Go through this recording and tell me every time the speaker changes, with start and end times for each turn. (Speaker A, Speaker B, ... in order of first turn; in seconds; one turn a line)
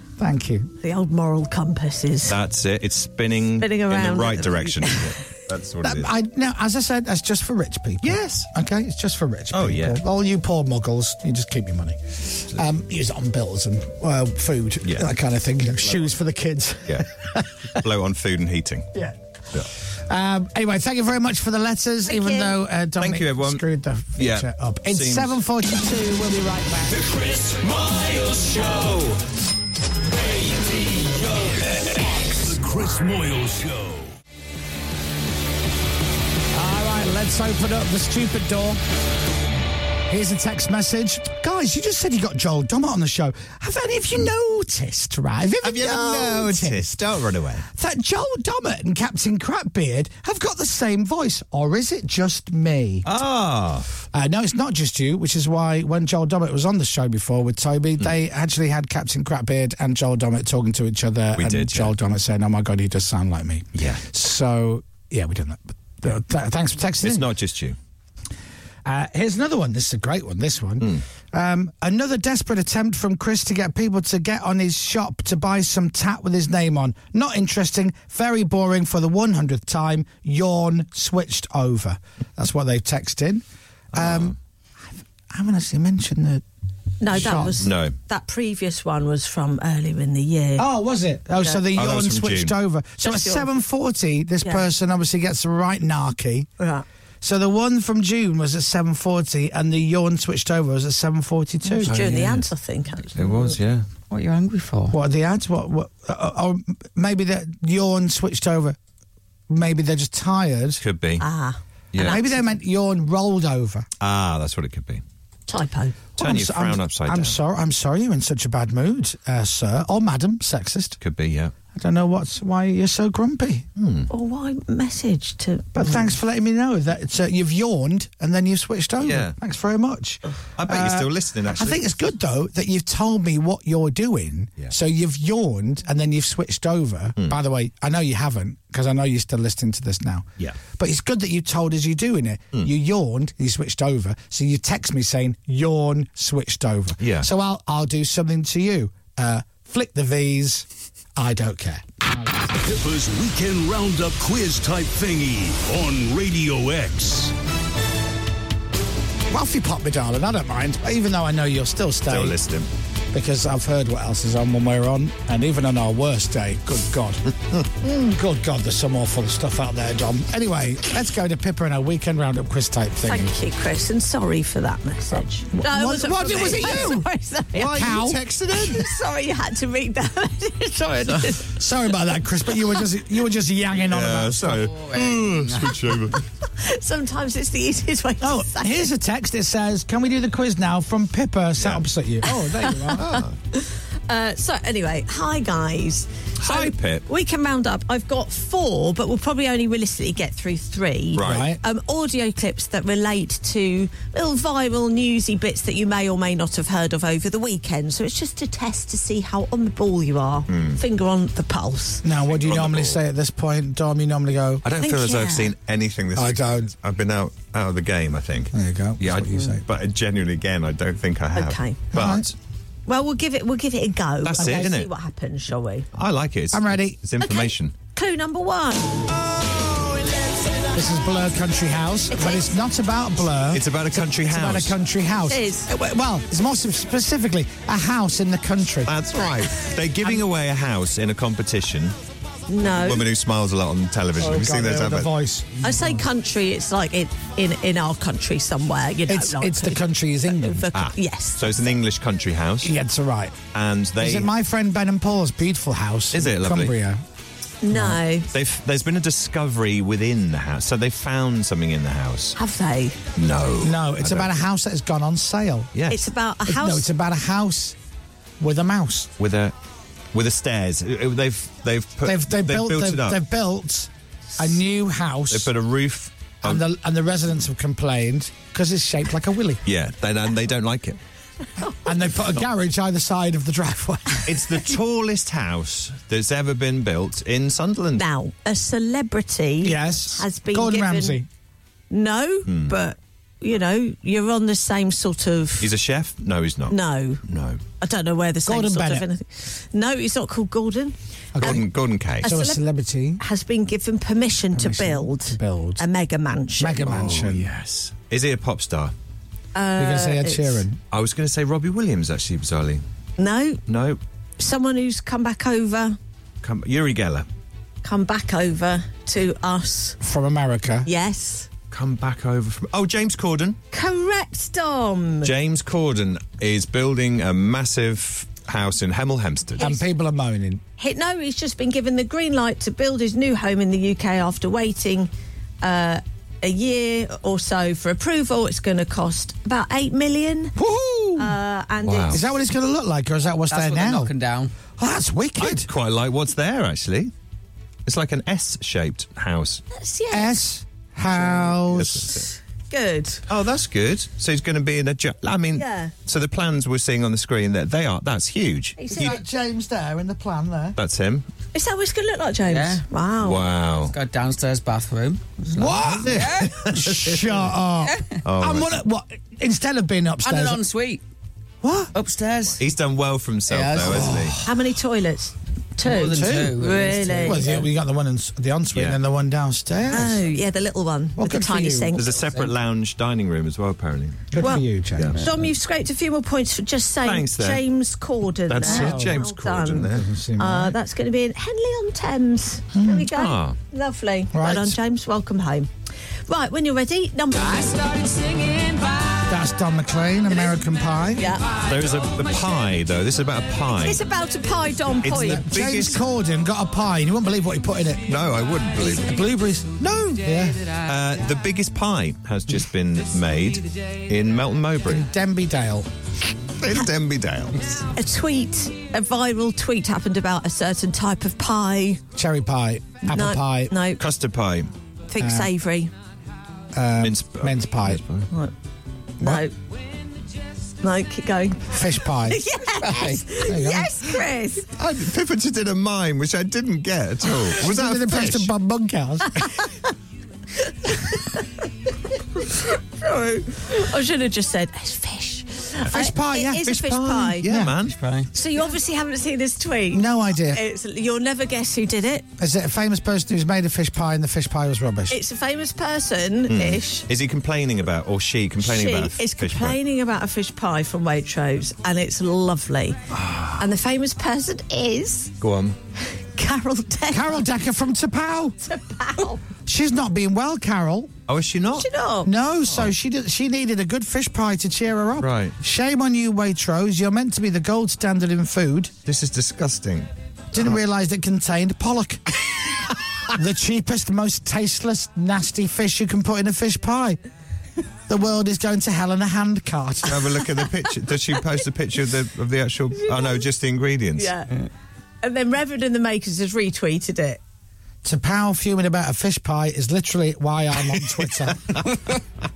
Speaker A: 0.2-0.7
Speaker B: 0.8-2.4
Speaker C: 2.3-6.1
Speaker B: 3.6-5.2
Speaker A: 5.8-17.8
Speaker C: 8.0-8.5
Speaker C: 9.5-10.0
Speaker C: 14.8-15.1
Speaker C: 17.7-18.9
Speaker A: 19.9-27.1
Speaker B: 22.1-22.5
Speaker C: 23.0-23.6
Speaker C: 24.2-25.4
Speaker D: 26.9-29.2
Speaker D: 30.3-34.1
Speaker A: 36.5-38.8
Speaker A: 40.1-47.0
Speaker C: 45.6-47.6
Speaker A: 47.7-53.1
Speaker C: 53.0-53.9
Speaker A: 54.1-67.3
Speaker C: 61.4-61.9
Speaker C: 63.7-64.0
Speaker C: 67.0-67.8
Speaker A: 68.8-86.4
Speaker C: 84.0-84.4
Speaker B: 87.0-90.7
Speaker A: 87.1-87.7
Speaker C: 87.2-88.0
Speaker A: 90.6-96.5
Speaker C: 91.8-92.5
Speaker B: 93.0-93.5
Speaker B: 96.6-96.9
Speaker A: 97.2-102.0
Speaker B: 101.7-103.4
Speaker C: 101.9-102.5
Speaker C: 103.2-103.9
Speaker E: 104.1-105.0
Speaker A: 104.9-108.8
Speaker A: 109.5-110.8
Speaker C: 110.8-111.2
Speaker B: 111.2-112.2
Speaker C: 111.9-112.2
Speaker A: 112.0-113.9
Speaker C: 114.0-115.0
Speaker B: 115.5-116.0
Speaker A: 116.2-121.0
Speaker C: 116.2-117.4
Speaker C: 121.0-121.5
Speaker A: 121.7-123.7
Speaker C: 123.8-124.1
Speaker B: 124.1-126.1
Speaker A: 125.7-140.3
Speaker C: 129.0-129.3
Speaker C: 130.6-131.8
Speaker A: 140.8-152.3
Speaker C: 147.0-147.3
Speaker D: 152.6-157.3
Speaker A: 159.3-162.4
Speaker C: 162.1-162.7
Speaker A: 163.1-173.3
Speaker B: 173.1-178.0
Speaker A: 175.5-177.1
Speaker C: 176.4-176.7
Speaker C: 177.6-178.9
Speaker A: 177.7-178.2
Speaker B: 178.6-181.5
Speaker A: 181.4-184.7
Speaker C: 183.9-186.2
Speaker E: 184.6-185.7
Speaker B: 186.6-188.8
Speaker A: 188.2-193.0
Speaker C: 191.6-191.8
Speaker B: 192.3-212.0
Speaker C: 192.9-193.3
Speaker C: 196.4-197.0
Speaker C: 201.1-201.5
Speaker A: 201.2-201.6
Speaker C: 210.5-210.8
Speaker A: 212.0-214.7
Speaker C: 212.3-213.0
Speaker C: 214.6-222.3
Speaker B: 214.8-215.5
Speaker A: 216.2-216.7
Speaker A: 218.5-219.6
Speaker B: 221.4-221.8
Speaker A: 221.9-222.3
Speaker B: 222.9-225.9
Speaker C: 224.2-224.9
Speaker A: 224.4-224.7
Speaker C: 225.9-227.7
Speaker A: 226.5-227.0
Speaker B: 227.3-229.1
Speaker A: 230.7-238.9
Speaker B: 232.1-232.5
Speaker C: 233.5-234.7
Speaker B: 235.2-235.7
Speaker C: 238.9-241.9
Speaker B: 242.5-243.1
Speaker C: 242.6-245.1
Speaker A: 244.2-246.1
Speaker B: 245.6-251.5
Speaker A: 249.1-250.7
Speaker C: 250.7-252.7
Speaker A: 252.6-253.4
Speaker C: 253.5-254.3
Speaker A: 254.0-257.0
Speaker C: 256.1-256.7
Speaker B: 257.6-258.3
Speaker A: 257.7-258.0
Speaker C: 258.3-262.4
Speaker B: 262.4-263.0
Speaker C: 263.2-264.3
Speaker A: 263.6-265.7
Speaker C: 265.7-266.1
Speaker B: 265.9-266.9
Speaker A: 266.4-267.8
Speaker A: 268.4-269.1
Speaker C: 269.2-269.5
Speaker C: 270.1-273.2
Speaker A: 272.0-275.5
Speaker C: 275.3-276.6
Speaker A: 276.4-279.6
Speaker C: 279.7-281.0
Speaker A: 281.8-284.6
Speaker C: 284.3-288.0
Speaker B: 287.9-291.2
Speaker A: 289.6-291.3
Speaker B: 291.9-295.7
Speaker C: 292.4-292.8
Speaker C: 295.6-297.6
Speaker B: 296.7-297.2
Speaker B: 297.8-301.6
Speaker A: 298.4-299.1
Speaker A: 301.4-301.7
Speaker C: 301.4-302.2
Speaker A: 302.2-303.2
Speaker B: 302.2-302.6
Speaker B: 303.2-306.8
Speaker A: 304.5-305.8
Speaker A: 306.6-307.5
Speaker C: 306.8-308.9
Speaker B: 309.6-310.6
Speaker A: 309.8-310.8
Speaker C: 310.9-312.8
Speaker B: 313.2-313.6
Speaker C: 313.7-314.0
Speaker B: 314.4-316.0
Speaker C: 316.4-317.3
Speaker B: 317.8-320.0
Speaker A: 320.0-320.9
Speaker B: 320.8-321.5
Speaker C: 321.7-323.6
Speaker B: 323.7-325.3
Speaker C: 325.2-329.6
Speaker A: 329.6-330.6
Speaker B: 330.8-335.1
Speaker B: 335.6-340.5
Speaker A: 340.6-341.4
Speaker B: 341.2-342.2
Speaker C: 341.8-342.2
Speaker A: 342.1-344.1
Speaker E: 343.5-344.5
Speaker A: 344.8-345.7
Speaker C: 345.4-347.1
Speaker C: 347.9-349.6
Speaker B: 349.7-350.4
Speaker A: 350.1-352.1
Speaker C: 351.1-352.3
Speaker B: 352.7-353.2
Speaker C: 353.3-358.8
Speaker B: 355.6-355.9
Speaker B: 358.8-359.2
Speaker A: 358.9-360.8
Speaker C: 360.8-361.3
Speaker B: 361.5-363.5
Speaker E: 362.5-362.8
Speaker C: 363.2-363.9
Speaker E: 363.9-366.6
Speaker A: 365.5-370.6
Speaker C: 366.0-367.4
Speaker E: 367.9-368.2
Speaker C: 368.2-368.7
Speaker E: 370.2-371.0
Speaker A: 371.6-371.9
Speaker E: 371.9-372.6
Speaker C: 372.6-374.4
Speaker E: 373.5-374.3
Speaker A: 373.8-374.5
Speaker B: 374.4-377.5
Speaker E: 375.8-377.7
Speaker A: 376.0-376.6
Speaker A: 377.2-380.2
Speaker B: 379.9-382.1
Speaker A: 381.2-382.0
Speaker C: 381.9-384.4
Speaker A: 384.3-385.2
Speaker B: 384.4-384.6
Speaker B: 385.2-395.7
Speaker C: 387.0-387.6
Speaker C: 388.5-390.1
Speaker A: 388.6-389.2
Speaker A: 389.8-390.8
Speaker A: 392.7-393.1
Speaker C: 393.1-393.6
Speaker A: 394.3-394.8
Speaker B: 396.3-399.1
Speaker A: 399.3-401.3
Speaker B: 401.2-401.6
Speaker C: 401.6-404.0
Speaker B: 403.8-405.4
Speaker C: 404.9-406.0
Speaker A: 405.0-408.2
Speaker C: 408.1-409.1
Speaker A: 408.8-409.7
Speaker C: 409.8-410.2
Speaker A: 410.2-410.6
Speaker C: 410.8-415.1
Speaker A: 414.9-415.9
Speaker C: 416.6-417.7
Speaker B: 417.9-422.0
Speaker A: 422.1-423.7
Speaker B: 423.1-424.0
Speaker C: 424.0-424.7
Speaker B: 425.1-425.9
Speaker A: 425.2-425.5
Speaker A: 426.7-428.0
Speaker C: 427.0-428.3
Speaker B: 429.2-429.5
Speaker B: 430.8-434.7
Speaker A: 431.7-432.4
Speaker E: 432.8-433.3
Speaker A: 433.4-433.9
Speaker C: 434.8-438.5
Speaker A: 437.5-439.5
Speaker B: 440.7-441.5
Speaker B: 442.4-447.4
Speaker A: 445.9-446.8
Speaker C: 446.6-447.9
Speaker A: 447.4-447.8
Speaker E: 447.9-448.3
Speaker B: 448.3-452.3
Speaker A: 449.9-450.6
Speaker A: 452.4-455.2
Speaker B: 455.1-457.1
Speaker C: 456.5-459.8
Speaker B: 458.6-463.0
Speaker C: 463.1-463.6
Speaker B: 463.6-465.3
Speaker C: 465.4-465.8
Speaker B: 466.1-467.4
Speaker A: 467.1-468.6
Speaker B: 468.7-469.4
Speaker A: 469.6-471.1
Speaker C: 471.3-471.9
Speaker B: 471.7-472.3
Speaker A: 472.2-478.9
Speaker C: 472.7-472.9
Speaker C: 475.2-475.6
Speaker C: 479.1-480.8
Speaker A: 480.5-482.4
Speaker A: 483.3-487.2
Speaker A: 488.1-490.4
Speaker C: 490.1-494.3
Speaker B: 493.1-493.4
Speaker B: 494.2-494.7
Speaker B: 495.2-497.4
Speaker A: 498.0-501.8
Speaker C: 501.5-501.9